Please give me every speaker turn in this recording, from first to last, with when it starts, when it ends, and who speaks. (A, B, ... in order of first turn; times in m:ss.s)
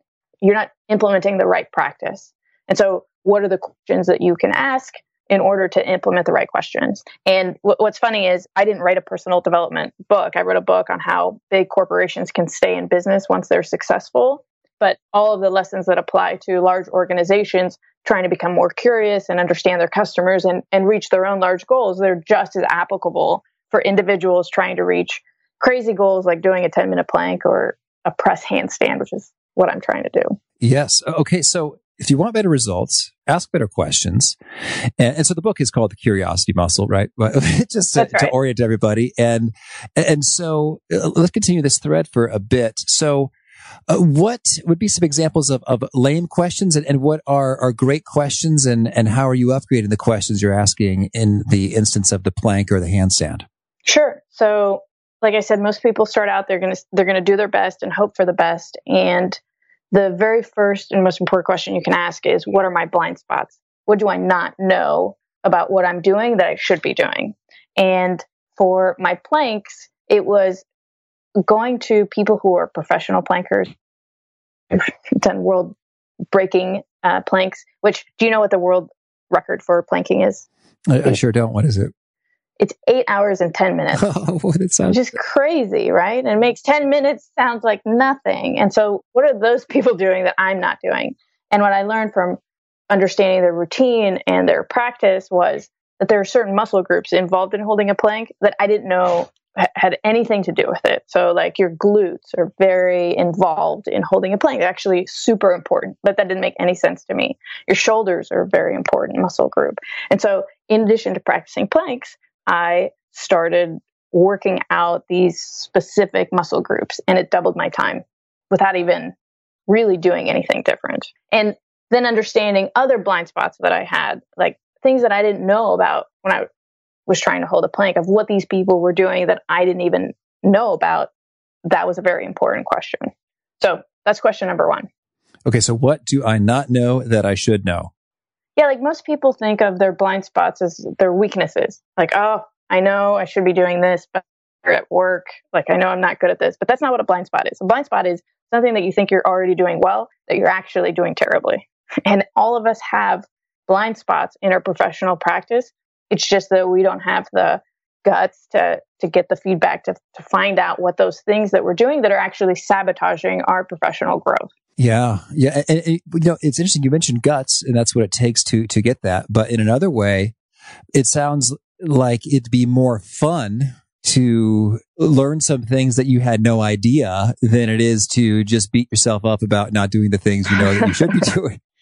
0:00.4-0:30.4 A
0:30.6-0:34.4 B
0:35.0-0:43.3 B
0:38.0-0:38.3 A
0:43.9-0:53.4 B
0:53.9-0:59.4 A
0:59.9-1:10.6 A
1:11.4-1:13.7 A
1:14.7-1:15.8 A
1:16.3-1:20.5 A
1:20.9-1:21.9 B
1:22.6-1:24.2 A
1:24.0-1:25.2 B
1:24.8-1:59.1 A
1:59.7-2:06.5 A
2:07.1-2:11.1 A
2:11.6-2:14.9 A
2:15.4-2:17.9 B
2:18.6-2:44.5 A
2:44.8-2:50.3 B
2:50.9-3:01.6 B
3:00.8-3:01.3 A